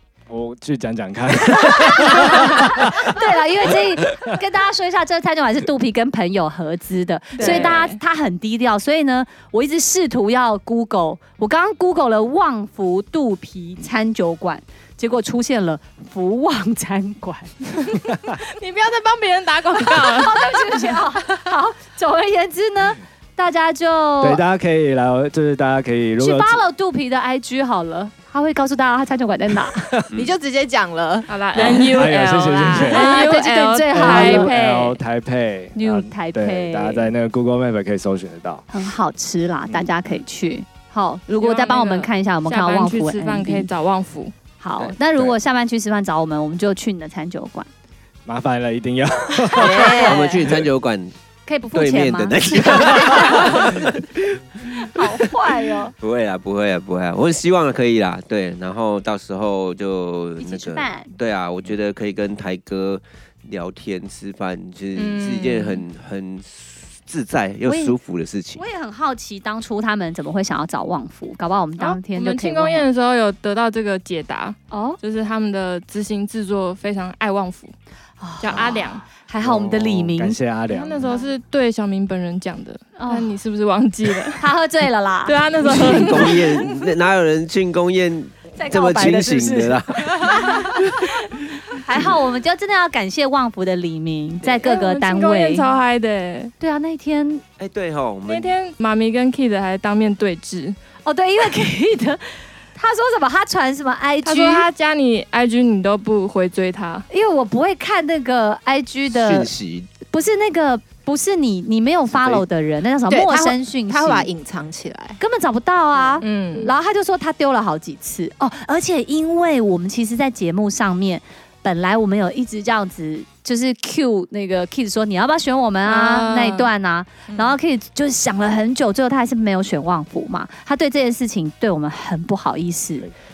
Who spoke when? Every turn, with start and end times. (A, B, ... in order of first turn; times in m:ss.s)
0:00.3-0:03.2 A
0:01.6-0:17.6 B
0:07.4-0:07.8 C
0:07.4-0:08.0 D
0:17.8-0:20.5 D
0:20.0-0:24.4 B
0:24.2-0:26.6 A
0:26.2-0:30.0 B
0:29.7-0:30.1 A
0:30.1-0:31.6 C
0:31.3-0:35.0 D
0:31.5-0:33.3 A
0:32.7-0:34.5 B
0:33.9-0:38.7 A
0:35.8-0:37.1 B
0:38.7-0:43.7 B
0:39.7-0:39.9 A
0:41.3-0:44.3 D
0:44.6-0:47.7 B
0:48.3-0:50.6 A
0:49.5-0:50.4 C
0:50.0-0:51.1 E
0:51.5-0:53.8 B
0:51.7-0:55.0 E
0:54.8-0:55.9 B
0:56.0-1:08.6 E
1:00.4-1:01.1 B
1:05.0-1:05.8 D
1:07.7-1:08.0 B
1:08.6-1:12.9 B
1:11.8-1:17.8 D
1:14.7-1:15.0 B
1:18.2-1:20.4 B
1:18.4-1:19.1 D
1:19.4-1:21.2 A
1:20.7-1:24.5 D
1:23.0-1:23.4 B
1:24.4-1:26.2 B
1:25.2-1:26.9 D
1:25.6-1:30.7 E
1:28.6-1:30.9 B
1:31.7-1:35.7 B
1:34.6-1:36.5 D
1:36.6-1:37.4 B
1:37.6-1:38.5 E
1:38.3-1:40.8 D
1:41.0-1:44.7 B
1:44.2-1:47.1 D
1:47.1-1:49.5 B
1:49.1-1:49.9 E
1:50.0-1:54.3 B
1:52.2-1:52.4 E
1:53.1-1:55.2 C
1:55.2-2:13.1 B
1:56.2-1:56.7 D
2:05.8-2:06.7 D